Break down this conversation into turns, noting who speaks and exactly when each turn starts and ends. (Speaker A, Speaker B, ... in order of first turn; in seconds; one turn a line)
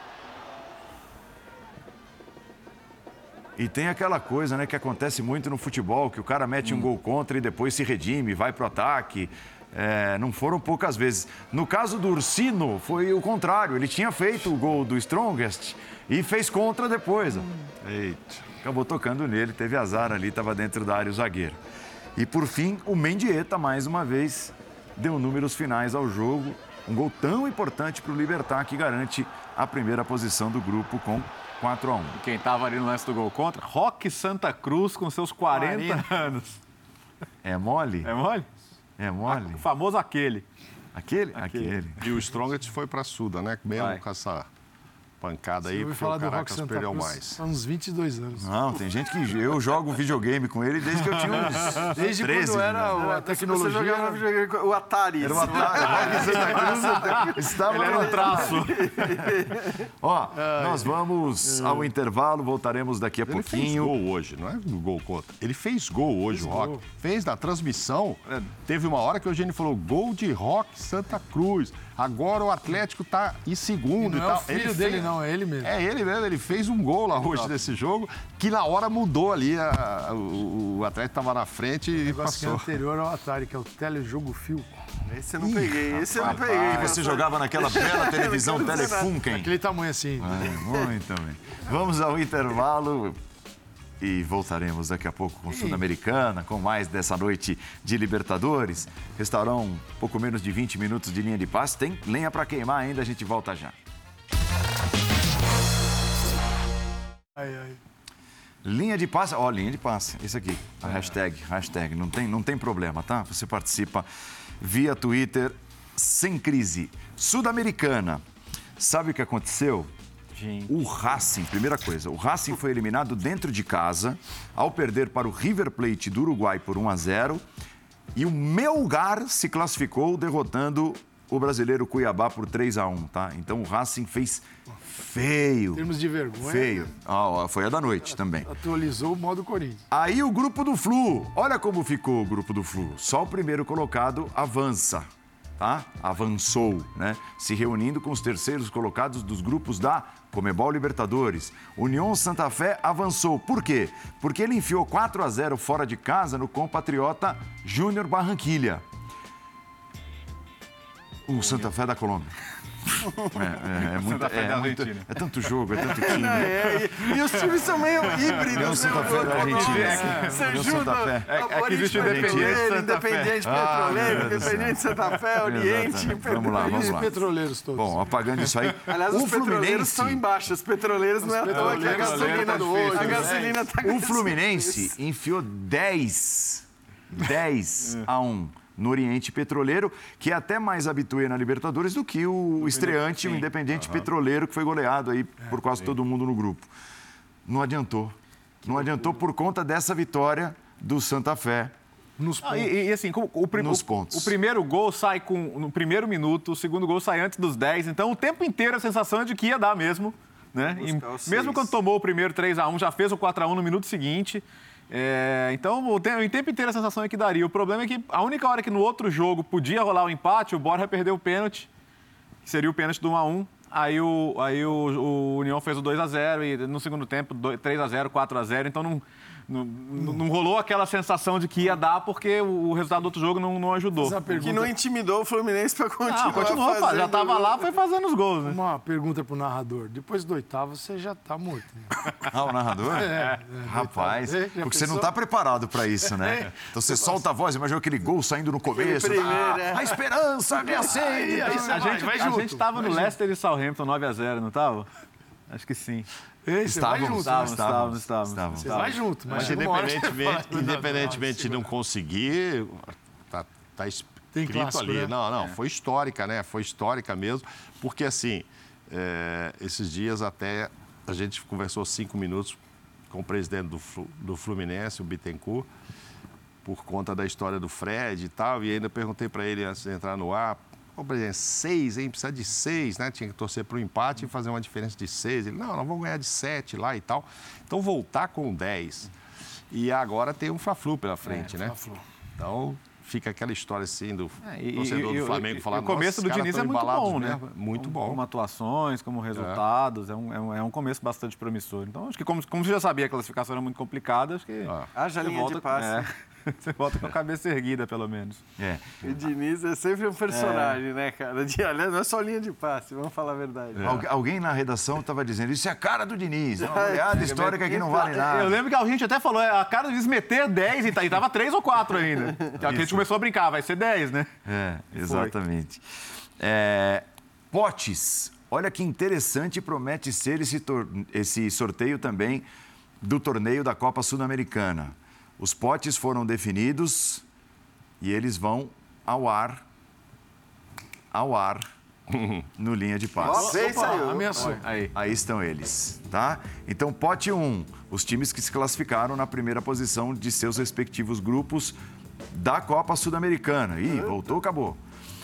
Speaker A: 3.6-21.6
Speaker B: 6.6-6.9
Speaker A: 22.1-32.2
Speaker B: 32.2-36.6
Speaker C: 35.5-36.3
Speaker A: 37.4-38.1
Speaker B: 38.0-38.5
Speaker A: 39.0-39.6
Speaker B: 39.3-40.5
Speaker A: 40.9-42.0
Speaker B: 41.3-41.8
Speaker D: 42.0-44.5
Speaker B: 43.8-44.0
Speaker D: 45.2-47.4
Speaker C: 45.6-48.5
Speaker A: 48.4-53.0
Speaker B: 51.0-51.9
Speaker C: 51.9-54.2
Speaker E: 53.0-59.9
Speaker A: 55.2-58.7
Speaker B: 55.7-59.1
Speaker A: 60.0-63.9
Speaker C: 60.3-60.9
Speaker B: 61.4-61.9
Speaker D: 63.3-82.8
Speaker C: 66.3-66.8
Speaker B: 68.3-68.5
Speaker C: 74.0-75.7
Speaker B: 77.2-77.5
Speaker C: 82.0-84.8
Speaker E: 85.1-89.1
Speaker C: 85.4-85.8
Speaker A: 85.9-89.5
Speaker C: 88.8-90.6
Speaker A: 90.2-93.2
Speaker A: 94.0-103.8
Speaker C: 95.5-95.8
Speaker C: 107.4-107.8
Speaker A: 108.6-114.1
Speaker B: 110.8-111.1
Speaker A: 114.6-118.2
Speaker A: 118.8-119.9
Speaker B: 120.3-120.7
Speaker A: 120.7-127.4
Speaker A: 128.2-135.9
Speaker C: 135.8-136.9
Speaker A: 136.4-138.5
Speaker C: 138.1-139.9
Speaker A: 139.9-145.1
Speaker A: 145.6-158.8
Speaker A: 161.3-162.3
Speaker B: 161.4-161.7
Speaker E: 163.0-163.4
Speaker A: 163.2-166.8
Speaker B: 163.9-165.1
Speaker E: 165.8-176.9
Speaker B: 168.1-170.8
Speaker A: 168.5-172.6
Speaker C: 169.7-170.4
Speaker B: 171.4-174.5
Speaker A: 173.4-174.8
Speaker A: 175.4-177.2
Speaker C: 176.4-178.0
Speaker A: 177.8-180.2
Speaker E: 178.9-184.9
Speaker C: 181.2-183.5
Speaker B: 181.5-183.6
Speaker A: 183.8-196.7
Speaker B: 192.6-193.5
Speaker A: 197.5-201.7
Speaker C: 202.2-202.7
Speaker B: 202.4-221.7
Speaker A: 203.5-204.4
Speaker E: 210.6-211.7
Speaker B: 222.4-234.2
Speaker C: 234.0-234.7
Speaker E: 234.3-237.7
Speaker B: 236.1-238.6
Speaker C: 238.4-241.9
Speaker A: 242.3-252.0
Speaker C: 242.9-245.1
Speaker C: 246.2-247.2
Speaker E: 248.7-250.0
Speaker C: 250.5-253.2
Speaker B: 251.3-254.9
Speaker B: 255.5-256.1
Speaker C: 256.4-257.9
Speaker A: 256.6-258.9
Speaker B: 257.2-259.6
Speaker C: 258.6-261.7
Speaker D: 259.3-272.6
Speaker C: 264.3-265.1
Speaker D: 273.1-275.7
Speaker D: 276.6-289.1
Speaker D: 289.7-291.8
Speaker C: 291.5-292.1
Speaker D: 292.4-298.2
Speaker B: 294.4-308.4
Speaker D: 299.4-299.6
Speaker E: 304.9-306.1
Speaker A: 308.6-309.2
Speaker E: 309.0-314.0
Speaker B: 310.3-310.8
Speaker A: 313.8-318.6
Speaker E: 316.6-318.2
Speaker B: 317.1-324.3
Speaker A: 322.6-323.1
Speaker A: 324.5-325.8
Speaker B: 324.9-325.3
Speaker A: 326.4-332.5
Speaker A: 333.0-337.2
Speaker A: 338.0-339.6
Speaker A: 341.1-341.7
Speaker D: 342.1-342.4
Speaker A: 342.6-343.8
Speaker E: 343.2-344.6
Speaker C: 343.2-344.6
Speaker B: 343.9-344.9
Speaker A: 344.9-351.8
Speaker A: 352.3-354.8